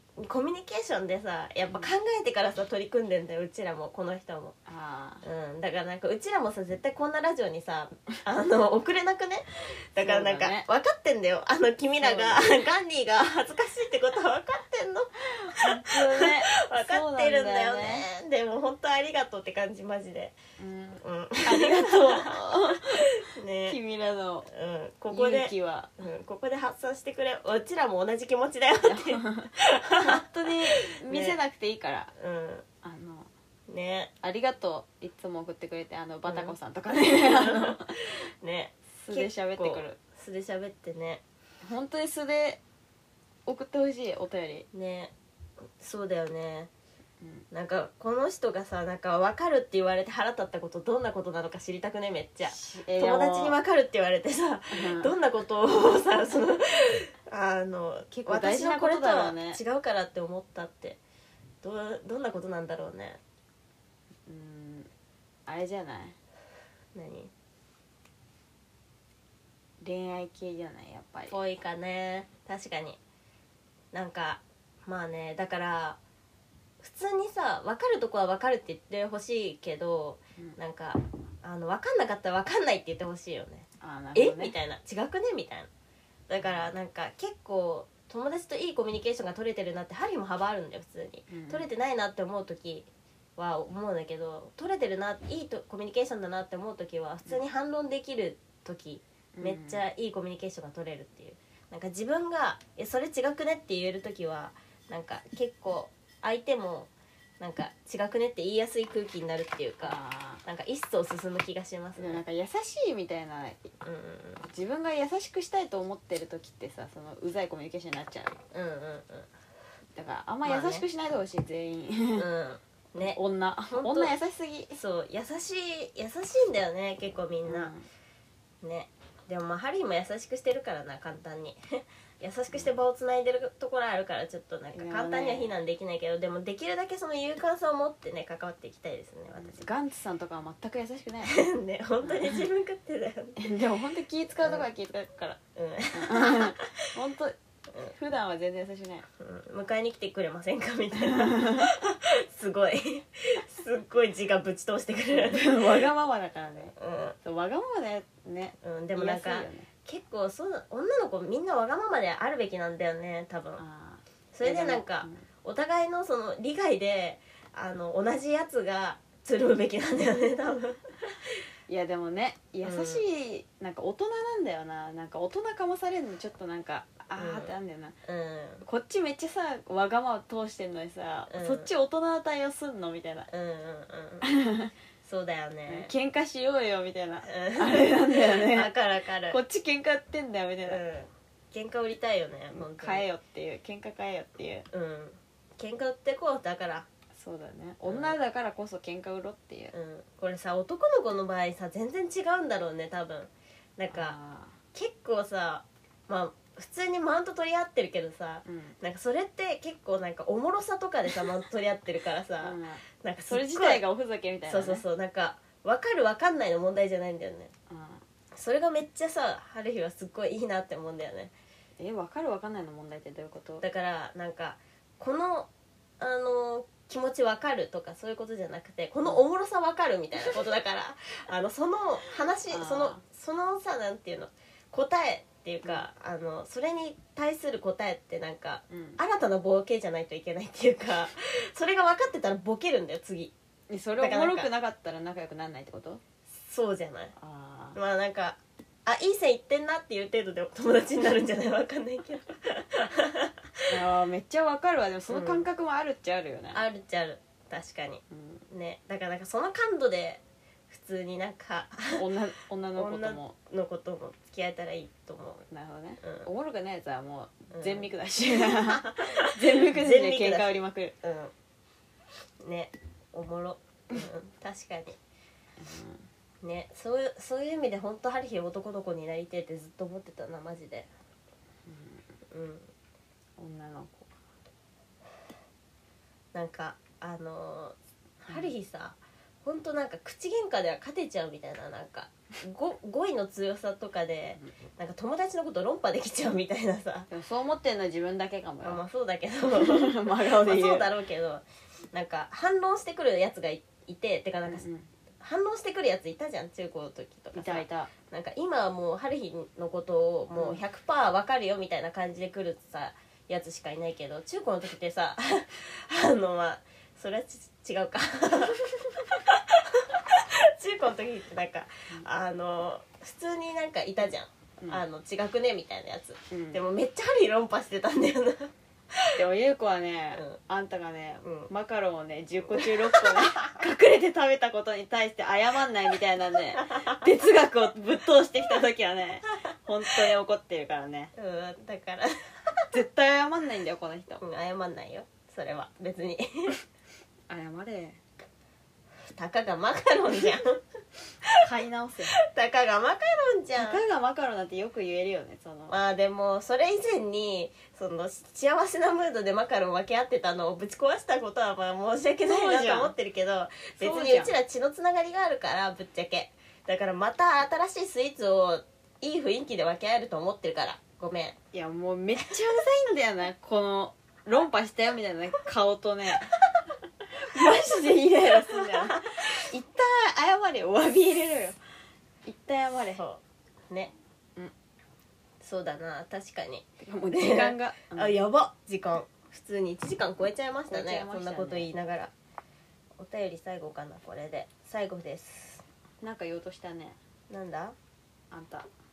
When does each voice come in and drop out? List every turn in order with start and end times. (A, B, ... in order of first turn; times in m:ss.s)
0:00.2-0:04.6 A
0:04.7-0:05.2 B
0:05.2-0:20.4 A
0:10.0-0:10.7 B
0:12.0-0:12.6 B
0:15.4-0:18.1 B
0:20.6-0:24.5 B
0:21.0-0:23.8 A
0:24.5-0:31.4 A
0:25.1-0:26.0 B
0:28.9-0:32.1 B
0:32.2-0:32.6 A
0:32.8-0:33.3 B
0:33.7-0:34.1 A
0:34.2-0:38.0 B
0:36.3-0:41.2 A
0:38.9-0:40.0 B
0:41.6-0:42.6 B
0:43.5-0:44.7 B
0:44.7-0:45.1 A
0:45.8-0:46.7 A
0:47.5-1:01.0 A
0:52.5-0:53.6 B
0:54.7-0:55.1 B
0:58.1-0:59.6 B
1:01.6-1:03.2 A
1:04.3-1:04.9 B
1:05.5-1:06.2 B
1:07.0-1:07.3 A
1:09.8-1:11.4 B
1:11.3-1:13.0 A
1:13.9-1:16.0 A
1:16.8-1:25.7 A
1:23.8-1:24.6 B
1:26.3-1:52.2 A
1:31.3-1:31.7 B
1:39.4-1:39.8 B
1:49.8-1:50.4 B
1:52.0-1:53.7 B
1:53.8-1:54.4 A
1:54.5-1:58.4 B
1:58.5-1:59.3 A
2:00.0-2:02.3 B
2:00.4-2:00.9 A
2:02.2-2:03.2 A
2:03.0-2:04.8 B
2:03.7-2:04.2 A
2:04.8-2:07.7 A
2:07.4-2:07.8 B
2:08.6-2:19.7 A
2:14.7-2:15.5 B
2:19.4-2:21.4 B
2:21.3-2:23.5 A
2:22.0-2:22.4 B
2:23.4-2:25.4 B
2:25.6-2:26.7 A
2:25.9-2:29.1 B
2:29.2-2:35.9 A
2:31.1-2:31.7 B
2:35.1-2:39.7 B
2:36.8-2:37.2 A
2:38.6-2:43.6 A
2:43.6-2:45.2 B
2:44.3-2:51.2 A
2:51.7-2:58.0 B
2:52.6-2:53.1 A
2:57.2-2:58.6 A
2:58.6-3:03.3 B
3:01.3-3:01.7 A
3:03.3-3:04.3 A
3:04.2-3:04.7 B
3:05.0-3:05.9 A
3:05.7-3:08.7 B
3:07.2-3:09.4 A
3:09.3-3:10.8 B
3:10.7-3:13.1 A
3:12.5-3:14.7 B
3:14.7-3:16.9 A
3:17.1-3:19.7 B
3:17.9-3:18.2 A
3:19.7-3:24.2 A
3:23.9-3:24.6 B
3:24.7-3:33.9 A
3:28.4-3:28.8 B
3:32.4-3:34.8 B
3:34.5-3:37.5 A
3:37.7-3:38.0 B
3:38.4-3:41.3 A
3:41.8-3:43.6 B
3:43.6-4:03.3 A
3:52.5-3:53.0 B
3:58.7-3:59.0 B
4:03.7-4:06.0 B
4:04.0-4:04.5 A
4:06.4-4:07.1 A
4:07.2-4:07.8 B
4:07.8-4:13.6 A
4:13.7-4:16.6 B
4:15.1-4:15.5 A
4:16.5-4:22.0 A
4:18.1-4:18.4 B
4:21.9-4:23.4 B
4:22.8-4:25.5 A
4:25.5-4:31.0 B
4:26.0-4:26.3 A
4:27.5-4:31.3 A
4:32.4-4:35.0 A
4:35.6-4:36.1 B
4:36.4-4:40.9 A
4:41.7-4:42.0 B
4:42.3-4:42.7 A
4:43.4-4:44.2 B
4:46.3-4:57.1 A
4:57.1-4:58.8 B
4:58.6-5:04.7 A
4:59.5-5:00.9 B
5:04.5-5:04.9 B
5:05.2-5:29.1 A
5:07.4-5:07.9 B
5:10.4-5:10.6 B
5:26.3-5:26.6 B
5:29.2-5:41.1 B
5:31.2-5:31.5 A
5:32.6-5:33.3 A
5:36.7-5:37.0 A
5:41.2-5:42.6 A
5:42.7-5:44.2 B
5:44.2-5:46.6 A
5:47.3-5:48.0 B
5:49.1-5:50.6 A
5:51.4-5:52.2 B
5:52.2-5:53.8 A
5:53.6-5:55.8 B
5:55.7-6:11.4 A
6:02.2-6:02.9 B
6:03.8-6:04.4 B
6:11.5-6:16.4 B
6:17.1-6:21.6 B
6:17.3-6:19.3 A
6:22.3-6:23.0 B
6:23.0-6:23.9 A
6:25.4-6:32.1 A
6:26.8-6:28.2 B
6:30.7-6:31.7 B
6:33.0-6:35.6 A
6:36.0-6:37.0 B
6:37.3-6:37.8 A
6:38.3-6:38.7 B